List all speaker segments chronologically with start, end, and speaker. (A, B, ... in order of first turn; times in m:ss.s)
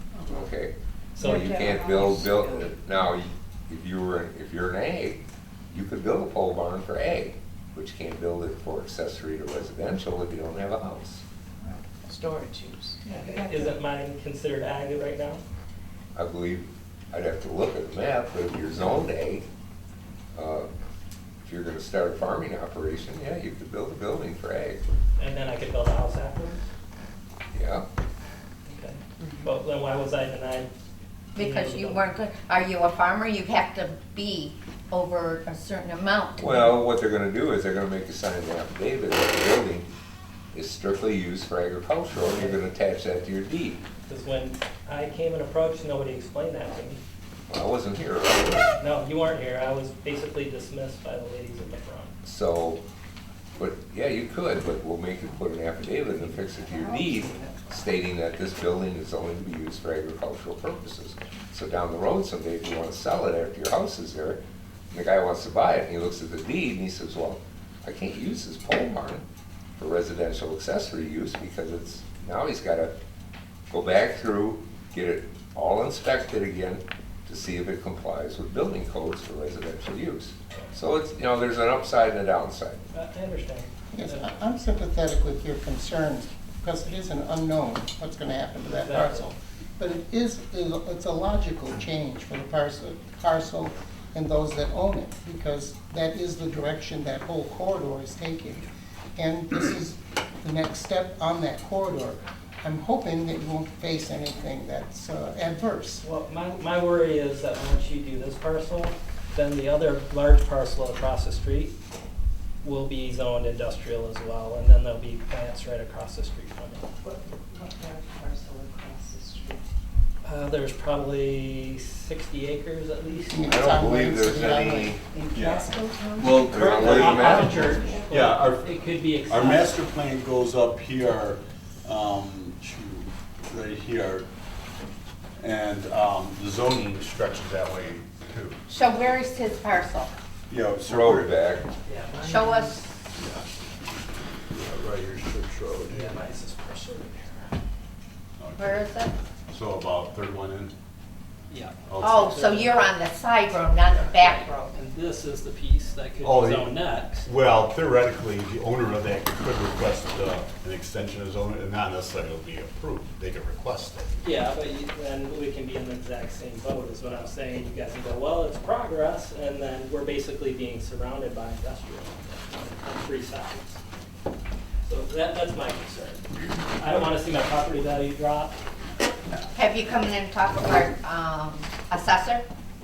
0:00.3-0:11.2 A
0:01.1-0:01.6 B
0:01.2-0:02.7 C
0:11.7-0:13.7 C
0:13.0-0:15.4 B
0:16.1-0:19.4 A
0:20.3-0:20.7 A
0:21.4-0:24.8 A
0:25.2-0:26.7 B
0:27.5-0:27.8 A
0:28.7-0:30.7 B
0:29.2-0:29.4 D
0:31.4-0:36.7 D
0:31.4-0:32.1 B
0:36.4-0:39.9 A
0:40.5-0:43.8 A
0:42.2-0:42.6 B
0:44.1-0:47.0 B
0:47.5-0:48.7 A
0:48.8-0:52.1 B
0:52.2-0:52.8 A
0:53.6-1:09.2 A
0:56.5-0:57.7 C
1:09.8-1:12.9 A
1:13.7-1:22.8 A
1:22.9-1:24.4 B
1:23.9-1:38.6 E
1:28.8-1:29.3 B
1:39.2-1:46.0 E
1:46.0-1:51.7 B
1:52.6-1:56.9 B
1:57.0-1:59.6 C
2:00.2-2:03.5 B
2:03.3-2:05.0 E
2:03.5-2:05.0 A
2:05.3-2:08.1 C
2:05.3-2:07.2 F
2:05.7-2:06.1 D
2:06.5-2:07.6 A
2:06.5-2:09.8 B
2:08.1-2:08.7 F
2:09.2-2:14.3 F
2:15.4-2:18.6 F
2:18.7-2:20.1 D
2:20.5-2:21.3 F
2:20.8-2:21.6 A
2:21.8-2:22.9 B
2:22.2-2:22.8 D
2:23.2-2:23.5 F
2:24.5-2:26.2 F
2:25.9-2:27.5 B
2:28.4-2:28.9 F
2:28.6-2:29.1 D
2:29.5-2:30.7 F
2:31.5-2:32.9 B
2:31.9-2:32.2 F
2:32.0-2:34.7 D
2:33.8-2:34.1 F
2:34.2-2:37.3 B
2:36.2-2:44.1 F
2:44.2-2:53.8 B
2:54.8-2:58.6 B
2:59.5-3:02.4 D